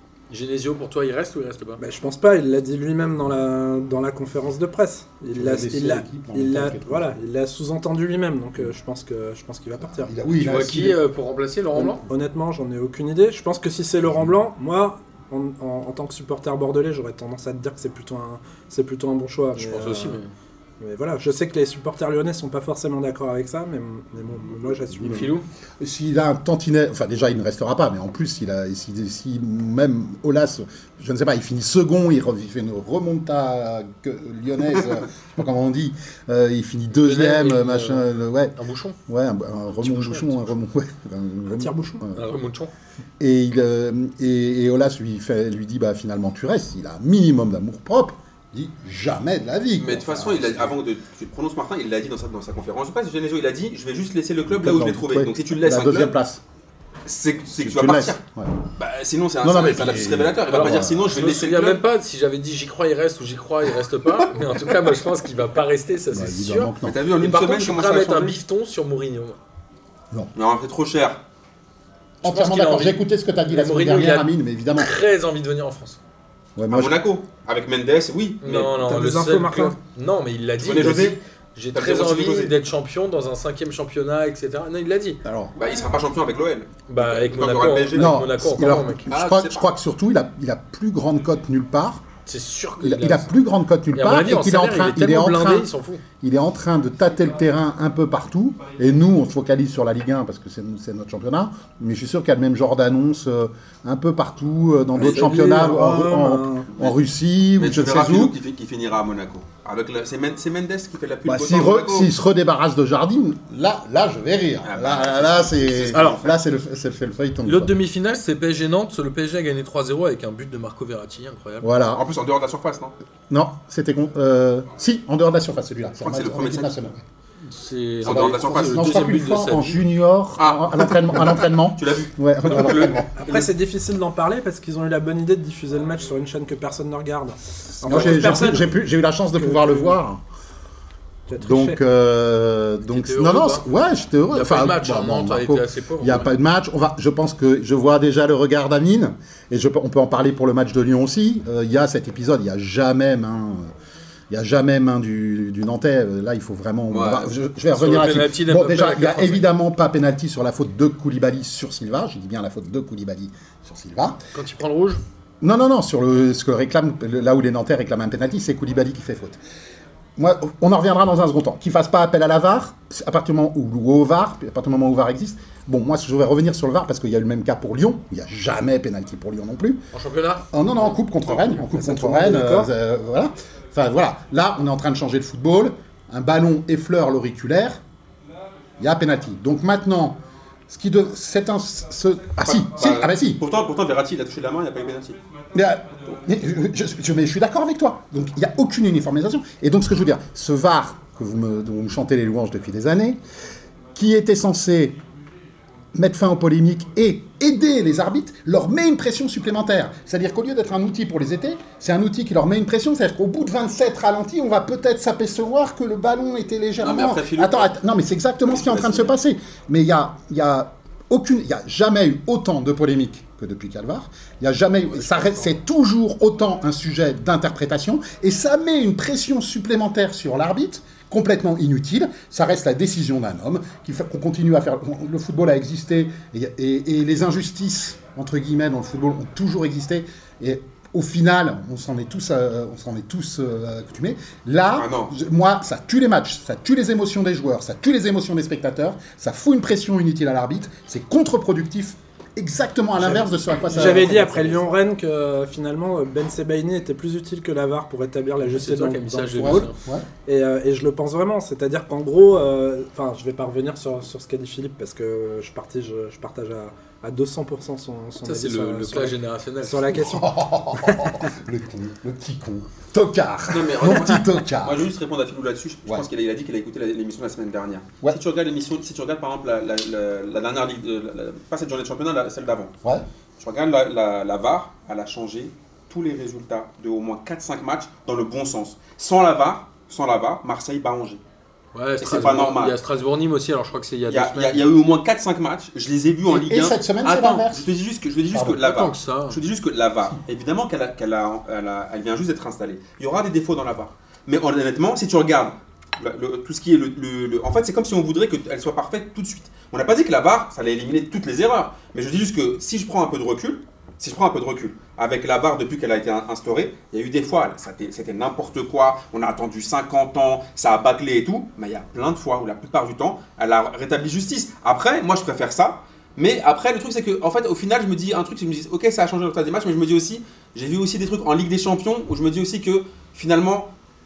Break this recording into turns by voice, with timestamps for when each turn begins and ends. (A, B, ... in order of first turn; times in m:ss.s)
0:00.3-0:01.8 A
0:01.8-0:10.1 B
0:05.3-0:07.1 C
0:09.8-0:11.0 C
0:10.4-0:12.0 A
0:12.0-0:20.2 B
0:14.0-0:14.3 C
0:19.6-0:20.3 A
0:20.8-0:25.3 B
0:24.9-0:42.2 C
0:25.0-0:25.4 A
0:37.0-0:39.0 A
0:39.8-0:40.5 A
0:41.5-0:42.0 B
0:42.1-0:42.7 A
0:43.2-0:50.8 C
0:49.8-0:56.1 D
0:54.5-0:56.4 C
0:57.0-0:58.2 D
0:57.6-0:58.5 C
0:58.8-1:01.8 D
0:59.4-1:01.1 C
1:00.5-1:09.4 A
1:06.1-1:07.0 C
1:06.8-1:08.4 D
1:10.3-1:11.2 D
1:12.2-1:14.9 C
1:12.2-1:16.0 A
1:16.6-1:17.0 C
1:16.7-1:18.7 D
1:18.4-1:25.2 A
1:18.8-1:19.8 B
1:20.6-1:21.2 D
1:21.7-1:22.5 D
1:25.2-1:25.5 C
1:25.6-1:28.2 D
1:26.9-1:29.1 A
1:27.9-1:32.0 C
1:29.1-1:29.6 D
1:32.2-1:33.3 A
1:32.8-1:35.7 C
1:33.9-1:36.0 A
1:36.2-1:48.3 C
1:45.0-1:46.7 B
1:47.6-1:52.1 D
1:51.2-1:57.7 C
1:54.6-1:56.4 D
1:55.9-1:56.2 A
1:57.4-2:01.7 A
2:01.6-2:02.0 C
2:01.9-2:02.9 D
2:03.3-2:07.0 C
2:06.0-2:06.8 D
2:07.5-2:09.8 A
2:08.0-2:13.1 C
2:08.0-2:08.9 D
2:10.4-2:13.5 D
2:13.2-2:18.7 B
2:17.8-2:20.2 C
2:17.9-2:18.4 A
2:19.4-2:20.0 B
2:21.3-2:21.8 B
2:21.4-2:33.7 C
2:22.9-2:23.6 A
2:24.3-2:26.3 A
2:34.3-2:44.2 C
2:36.9-2:37.3 D
2:37.7-2:39.5 A
2:44.3-2:45.0 A
2:45.4-2:49.4 C
2:50.2-2:59.8 C
2:59.9-3:00.5 A
3:00.5-3:07.8 C
3:01.5-3:02.7 B
3:08.8-3:13.4 C
3:12.4-3:15.2 D
3:15.5-3:23.2 C
3:23.9-3:25.0 C
3:25.9-4:14.6 C
3:36.8-3:37.7 D
3:38.5-3:39.1 D
3:45.0-3:45.4 D
4:04.8-4:05.1 D
4:13.0-4:19.7 B
4:18.4-4:19.8 A
4:19.4-4:20.1 C
4:20.2-4:31.3 B
4:28.2-4:30.0 A
4:29.9-4:34.9 C
4:33.5-4:42.8 D
4:43.4-4:51.2 D
4:51.7-4:54.7 A
4:52.0-4:52.8 D
4:54.1-5:33.7 D
4:56.3-4:57.6 C
4:58.3-4:58.6 C
4:58.6-4:59.4 A